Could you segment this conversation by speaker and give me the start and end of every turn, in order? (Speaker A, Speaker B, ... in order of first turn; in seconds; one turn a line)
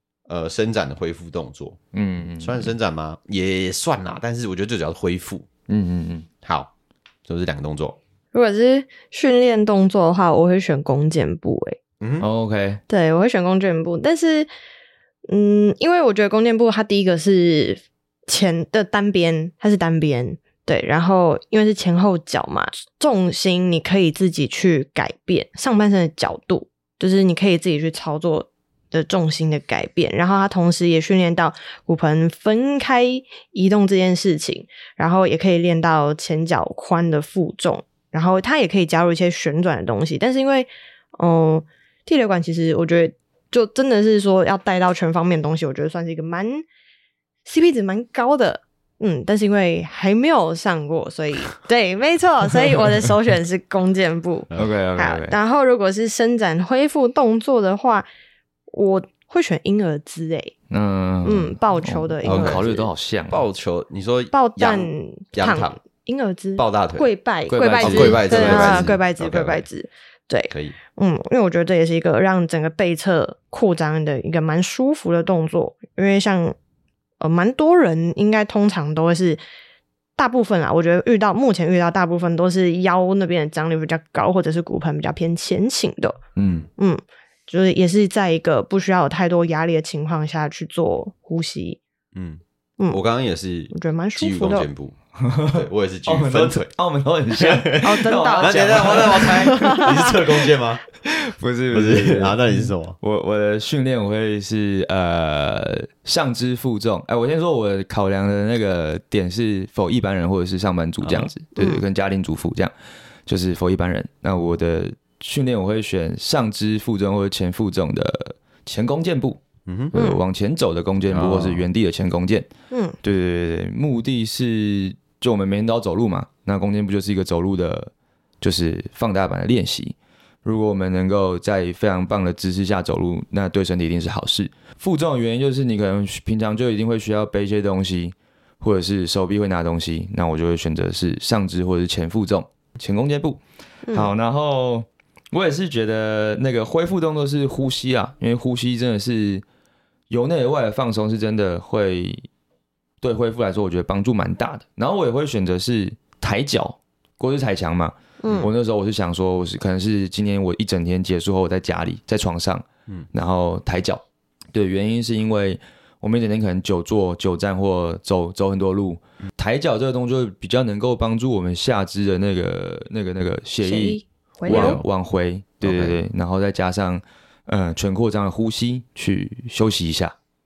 Speaker A: 0.3-1.8
Speaker B: 1.9-2.7
Speaker A: 2.4-5.5
Speaker B: 5.7-6.3
Speaker A: 6.4-6.7
Speaker A: 7.3-8.0
Speaker C: 8.3-11.8
Speaker A: 12.0-12.3
Speaker B: 12.2-12.8
Speaker C: 12.9-14.5
Speaker C: 15.3-46.6
Speaker C: 47.4-58.0
Speaker B: 54.6-55.4
Speaker C: 58.7-60.5
Speaker B: 60.7-63.4
Speaker C: 61.2-62.7
Speaker A: 62.2-65.8
Speaker C: 64.3-76.5
Speaker A: 66.5-67.1
Speaker B: 67.5-68.9
Speaker A: 67.8-69.7
Speaker A: 70.5-70.8
Speaker C: 77.2-79.4
Speaker C: 80.2-86.2
Speaker B: 86.3-86.7
Speaker C: 86.8-91.8
Speaker A: 92.1-95.0
Speaker C: 93.7-94.7
Speaker B: 95.2-99.9
Speaker A: 95.5-96.7
Speaker A: 97.3-100.8
Speaker C: 97.8-99.8
Speaker B: 101.0-112.7
Speaker A: 101.7-103.0
Speaker A: 111.0-111.3
Speaker C: 111.5-111.8
Speaker B: 113.2-122.5
Speaker A: 119.7-119.9
Speaker C: 119.9-120.2
Speaker A: 121.1-121.6
Speaker C: 122.7-123.0
Speaker B: 123.0-143.4
Speaker C: 143.8-144.1
Speaker B: 143.9-149.4
Speaker B: 150.1-152.3
Speaker B: 153.0-180.1
Speaker C: 158.2-158.5
Speaker C: 173.6-174.8
Speaker A: 174.5-174.8
Speaker A: 175.6-176.0